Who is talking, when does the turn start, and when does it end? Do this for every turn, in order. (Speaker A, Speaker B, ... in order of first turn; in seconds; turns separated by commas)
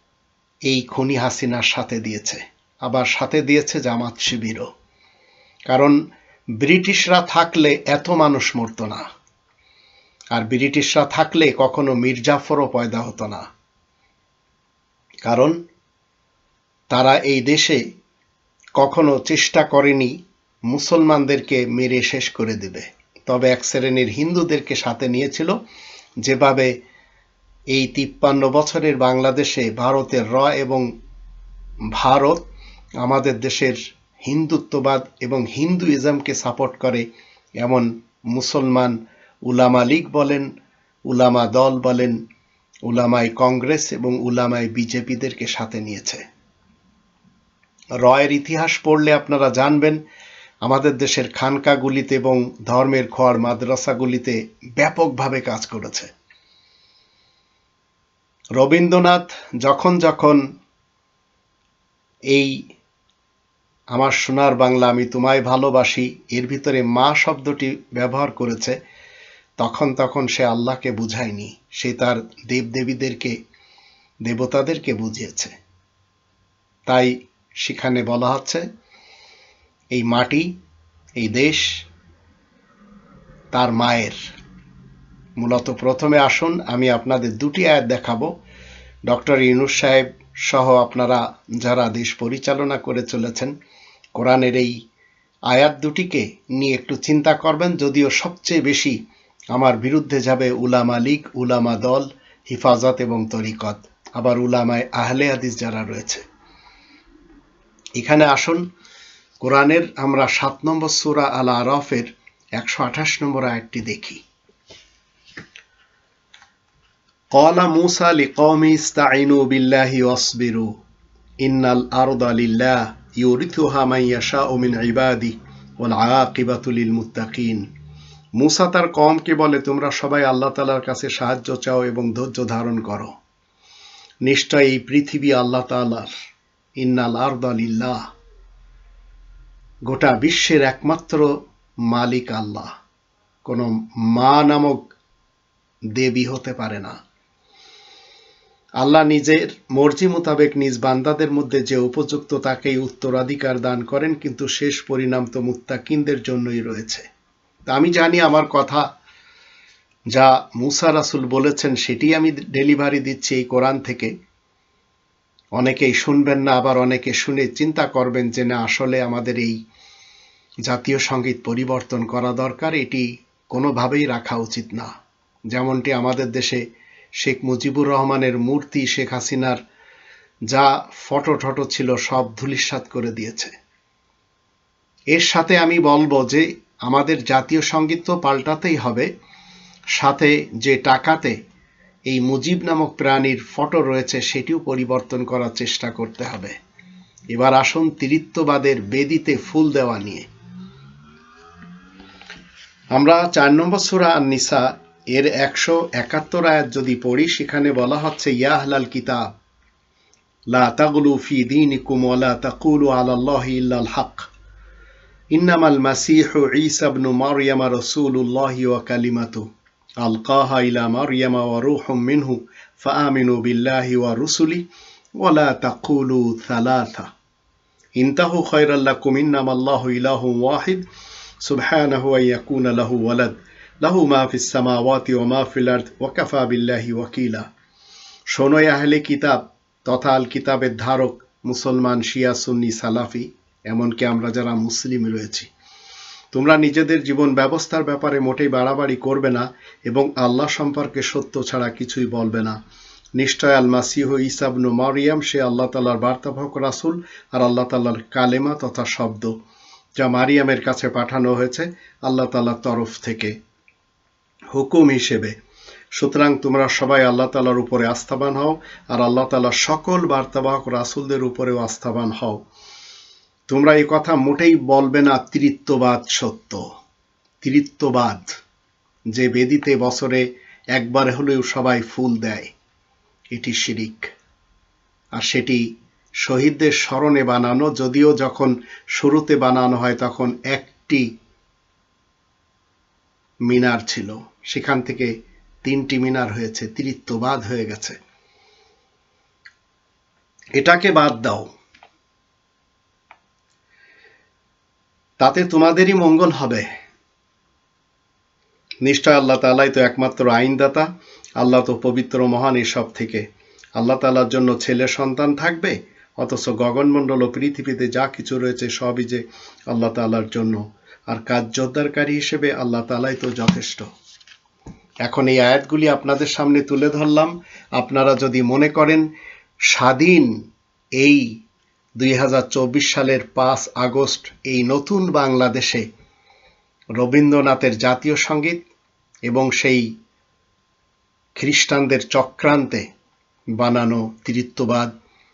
Speaker A: 0.7-4.7, Speaker A: 5.7-6.0, Speaker A: 6.6-9.0, Speaker A: 10.3-13.4, Speaker A: 15.2-15.5, Speaker A: 16.9-17.8, Speaker A: 18.8-20.1, Speaker A: 20.7-25.5, Speaker A: 26.2-26.7, Speaker A: 27.7-30.8, Speaker A: 32.0-32.4, Speaker A: 33.0-37.0, Speaker A: 37.6-39.0, Speaker A: 39.5-40.5, Speaker A: 41.1-42.2, Speaker A: 42.9-46.2, Speaker A: 48.0-50.0, Speaker A: 50.6-56.1, Speaker A: 58.6-60.4, Speaker A: 63.9-68.7, Speaker A: 69.6-73.3, Speaker A: 74.2-75.5, Speaker A: 77.6-78.6, Speaker A: 79.9-80.5, Speaker A: 81.2-81.7, Speaker A: 83.5-84.2, Speaker A: 85.4-88.3, Speaker A: 89.1-93.5, Speaker A: 94.2-94.7, Speaker A: 95.5-99.0, Speaker A: 99.5-106.2, Speaker A: 108.0-108.6, Speaker A: 109.4-114.2, Speaker A: 117.3-120.7, Speaker A: 121.4-127.6, Speaker A: 128.4-133.1, Speaker A: 134.2-136.1, Speaker A: 136.8-138.0, Speaker A: 139.9-141.3, Speaker A: 141.9-142.7, Speaker A: 143.4-144.8, Speaker A: 146.0-146.9, Speaker A: 148.8-157.0, Speaker A: 157.7-158.8, Speaker A: 160.1-164.1, Speaker A: 165.6-169.5, Speaker A: 170.7-174.9, Speaker A: 175.5-176.6, Speaker A: 177.2-179.6, Speaker A: 180.5-183.5, Speaker A: 185.1-189.1, Speaker A: 189.9-191.3, Speaker A: 192.1-196.5, Speaker A: 197.3-200.2, Speaker A: 202.9-209.3, Speaker A: 210.5-214.2, Speaker A: 215.3-219.4, Speaker A: 220.0-224.6, Speaker A: 225.2-227.1, Speaker A: 228.0-230.8, Speaker A: 231.4-237.4, Speaker A: 238.3-245.5, Speaker A: 246.3-252.6, Speaker A: 253.2-259.3, Speaker A: 260.0-263.3, Speaker A: 264.5-265.3, Speaker A: 265.9-272.4, Speaker A: 273.5-276.6, Speaker A: 277.4-278.3, Speaker A: 279.1-280.2, Speaker A: 280.7-282.5, Speaker A: 283.3-284.1, Speaker A: 285.1-285.6, Speaker A: 286.2-291.0, Speaker A: 293.5-295.1, Speaker A: 295.6-297.9, Speaker A: 300.6-301.5, Speaker A: 305.2-306.6, Speaker A: 308.8-310.9, Speaker A: 311.4-313.2, Speaker A: 313.8-323.8, Speaker A: 325.0-329.0, Speaker A: 329.7-330.3, Speaker A: 332.0-335.8, Speaker A: 337.0-338.6, Speaker A: 339.3-339.8, Speaker A: 341.4-342.8, Speaker A: 343.6-344.9